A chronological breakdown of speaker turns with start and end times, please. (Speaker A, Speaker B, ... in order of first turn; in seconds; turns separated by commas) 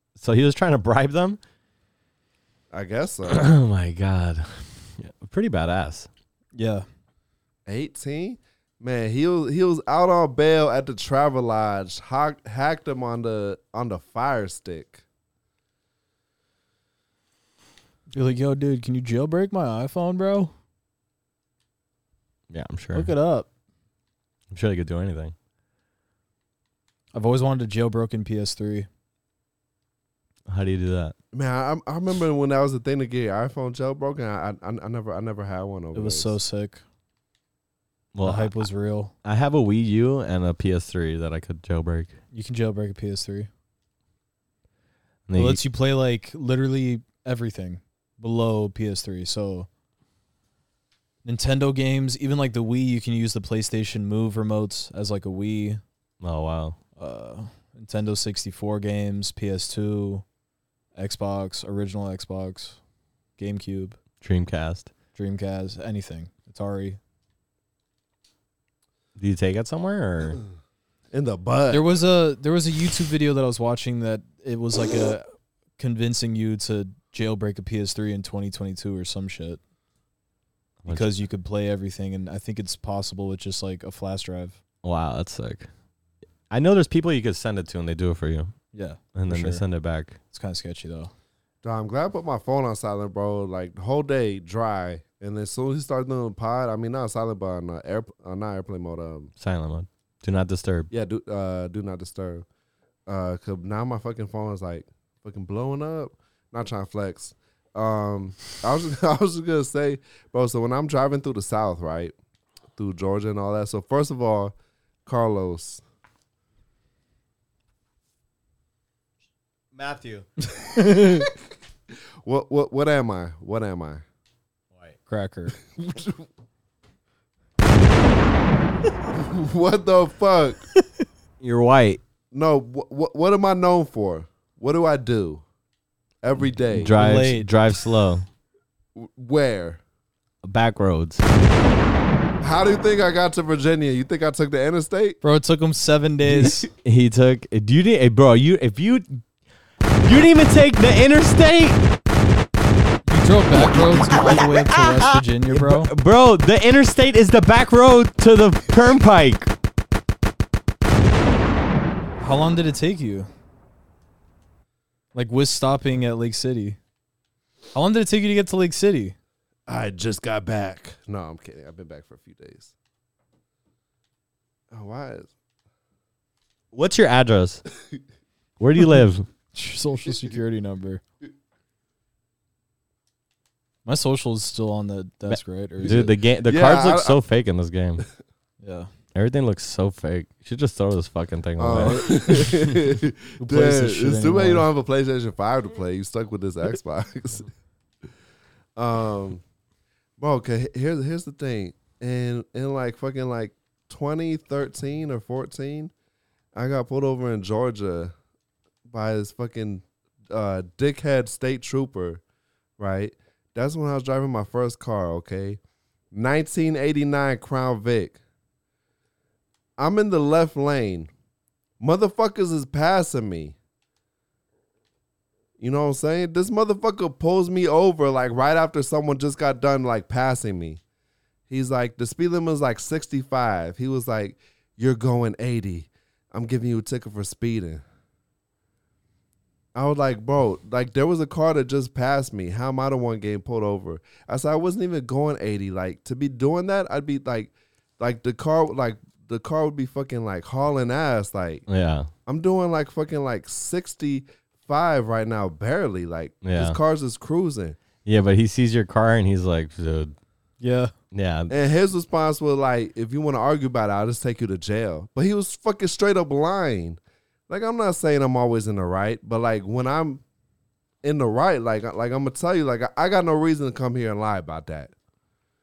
Speaker A: 0.2-1.4, Speaker B: 2.7-3.4, Speaker A: 3.3-6.1, Speaker C: 6.5-6.9, Speaker B: 7.7-15.0, Speaker C: 18.1-20.5, Speaker A: 22.5-23.1, Speaker C: 22.9-23.5, Speaker A: 24.5-25.3, Speaker C: 27.1-28.9, Speaker A: 30.5-31.1, Speaker B: 31.3-36.4, Speaker C: 35.9-36.8, Speaker A: 38.1-38.6, Speaker C: 38.2-39.1, Speaker A: 39.2-42.2, Speaker C: 42.3-43.5, Speaker A: 45.3-45.6, Speaker C: 45.4-49.7, Speaker C: 51.2-55.8, Speaker A: 56.2-56.8, Speaker C: 57.0-60.2, Speaker C: 61.0-62.8, Speaker C: 63.4-64.0, Speaker A: 64.2-64.9, Speaker C: 65.2-67.0, Speaker A: 69.2-70.4, Speaker B: 71.1-71.9, Speaker C: 71.7-75.3, Speaker C: 75.8-79.6, Speaker A: 80.8-81.1, Speaker C: 80.9-84.6, Speaker A: 84.8-85.7, Speaker A: 86.5-88.5, Speaker C: 88.7-89.7, Speaker A: 89.2-90.2, Speaker C: 90.3-91.1, Speaker B: 91.6-99.3, Speaker A: 99.4-100.9, Speaker B: 100.9-102.5, Speaker B: 103.1-112.2, Speaker B: 112.8-114.5, Speaker B: 115.1-115.8, Speaker A: 119.8-120.3, Speaker C: 120.6-121.3, Speaker B: 122.2-124.0, Speaker C: 125.1-125.6, Speaker B: 125.7-126.2, Speaker B: 129.2-130.7, Speaker A: 131.4-132.0, Speaker B: 132.3-135.4, Speaker B: 136.2-136.9, Speaker A: 136.7-138.2, Speaker C: 137.0-137.5, Speaker B: 138.9-139.8, Speaker A: 140.4-141.2, Speaker B: 142.4-145.2, Speaker C: 145.2-146.7, Speaker A: 146.3-149.2, Speaker A: 150.0-151.8, Speaker C: 153.1-155.9, Speaker A: 154.1-154.4, Speaker A: 155.5-159.5, Speaker C: 162.2-163.3, Speaker C: 165.1-166.8, Speaker C: 167.7-169.2, Speaker B: 169.7-172.7, Speaker B: 174.7-175.3, Speaker A: 176.7-177.7, Speaker A: 178.6-179.3, Speaker C: 179.5-181.0, Speaker C: 183.8-186.1, Speaker A: 185.3-188.1, Speaker B: 185.8-187.2, Speaker C: 188.6-188.9, Speaker A: 189.2-192.2, Speaker B: 191.6-197.5, Speaker C: 191.7-192.4, Speaker C: 193.4-194.7, Speaker B: 198.8-199.4, Speaker B: 200.2-205.9, Speaker B: 206.6-208.1, Speaker B: 208.9-212.2, Speaker B: 212.8-215.6, Speaker B: 216.1-218.2, Speaker B: 219.8-221.1, Speaker B: 221.8-223.6, Speaker B: 225.6-230.8, Speaker B: 231.5-237.8, Speaker B: 239.8-251.7, Speaker A: 251.7-252.1, Speaker B: 252.3-257.8, Speaker A: 256.4-256.8, Speaker A: 258.1-260.1, Speaker C: 260.6-260.9, Speaker A: 261.1-261.5, Speaker B: 261.5-270.2, Speaker B: 271.0-274.9